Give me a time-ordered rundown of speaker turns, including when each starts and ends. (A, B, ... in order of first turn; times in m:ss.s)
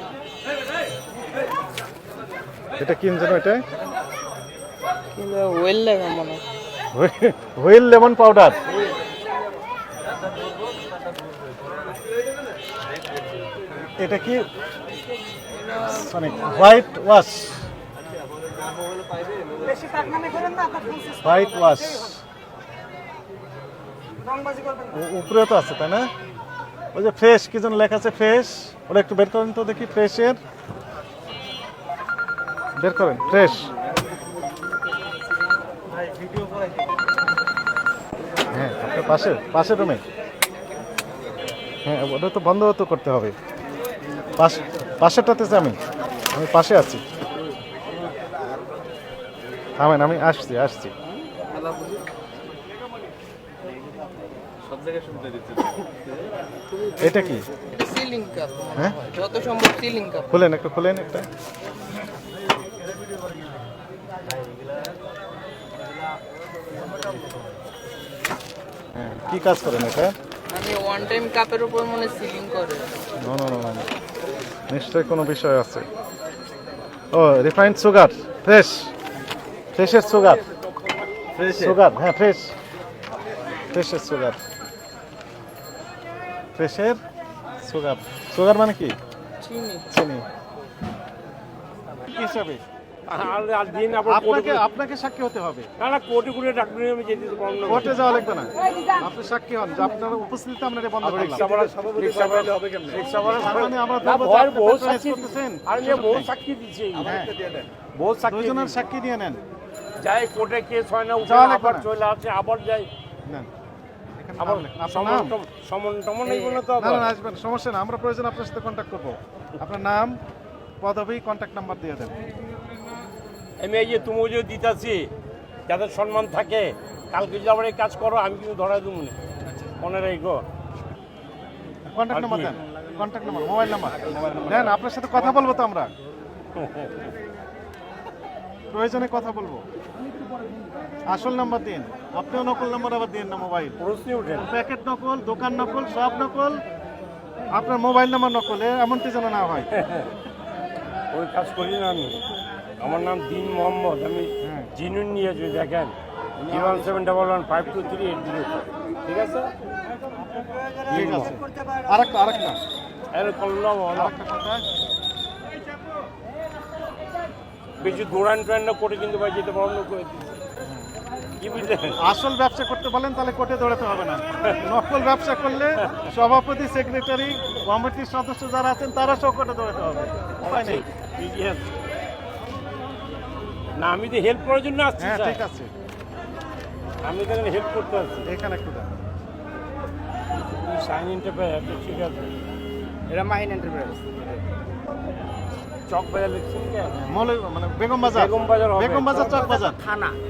0:02.8-0:03.6 A
0:05.2-0:06.4 B
0:06.9-0:08.6 A
0:14.0-0:14.5 A
0:15.6-0:16.8 B
0:15.8-0:17.7 A
0:19.6-0:21.1 B
0:21.1-0:22.2 A
0:24.4-0:24.7 B
0:24.9-0:26.1 A
0:26.9-0:30.4 A
0:32.8-0:33.7 A
0:38.5-0:40.0 A
0:41.8-0:43.3 A
0:44.4-0:45.8 A
0:46.3-0:47.0 A
0:49.8-0:50.9 A
0:57.0-0:57.5 A
0:57.7-1:00.3 B
0:58.8-0:59.0 A
1:00.3-1:01.3 A
1:08.9-1:10.1 A
1:10.5-1:12.9 B
1:13.2-1:13.9 A
1:14.7-1:15.8 A
1:17.1-1:18.9 A
1:19.7-1:20.4 A
1:21.4-1:22.5 A
1:23.7-1:24.4 A
1:26.6-1:27.0 A
1:27.6-1:29.0 A
1:29.4-1:29.9 B
1:29.9-1:30.2 A
1:32.0-1:32.6 A
1:33.1-1:34.7 C
1:34.0-1:35.7 A
1:35.8-1:38.0 C
1:37.6-1:41.5 A
1:41.0-1:47.2 C
1:43.2-1:46.3 A
1:47.0-1:47.3 A
1:47.9-1:48.8 C
1:48.2-1:49.4 A
1:50.0-1:52.9 C
1:51.2-1:51.9 A
1:54.2-1:55.4 A
1:54.4-1:57.1 C
1:56.7-2:00.2 A
2:00.8-2:02.2 A
2:03.6-2:05.1 C
2:05.7-2:09.1 C
2:09.8-2:10.4 C
2:11.9-2:15.9 A
2:12.1-2:12.6 C
2:14.1-2:14.8 C
2:16.6-2:16.9 C
2:18.7-2:19.6 A
2:21.1-2:23.8 A
2:23.8-2:24.5 C
2:24.4-2:26.6 A
2:27.5-2:29.7 A
2:29.7-2:30.1 C
2:31.1-2:32.2 C
2:32.8-2:39.5 C
2:34.4-2:34.7 A
2:36.5-2:36.8 A
2:40.9-2:42.6 A
2:40.9-2:41.2 C
2:43.1-2:44.1 C
2:43.9-2:44.6 A
2:47.8-2:50.4 C
2:51.4-2:52.0 C
2:51.9-3:00.8 A
3:00.4-3:01.7 C
3:03.8-3:05.4 C
3:05.0-3:05.7 A
3:07.0-3:08.2 C
3:08.2-3:08.9 A
3:10.4-3:12.3 C
3:13.1-3:14.2 D
3:15.9-3:17.0 C
3:17.0-3:19.8 A
3:18.0-3:19.5 C
3:19.2-3:20.2 D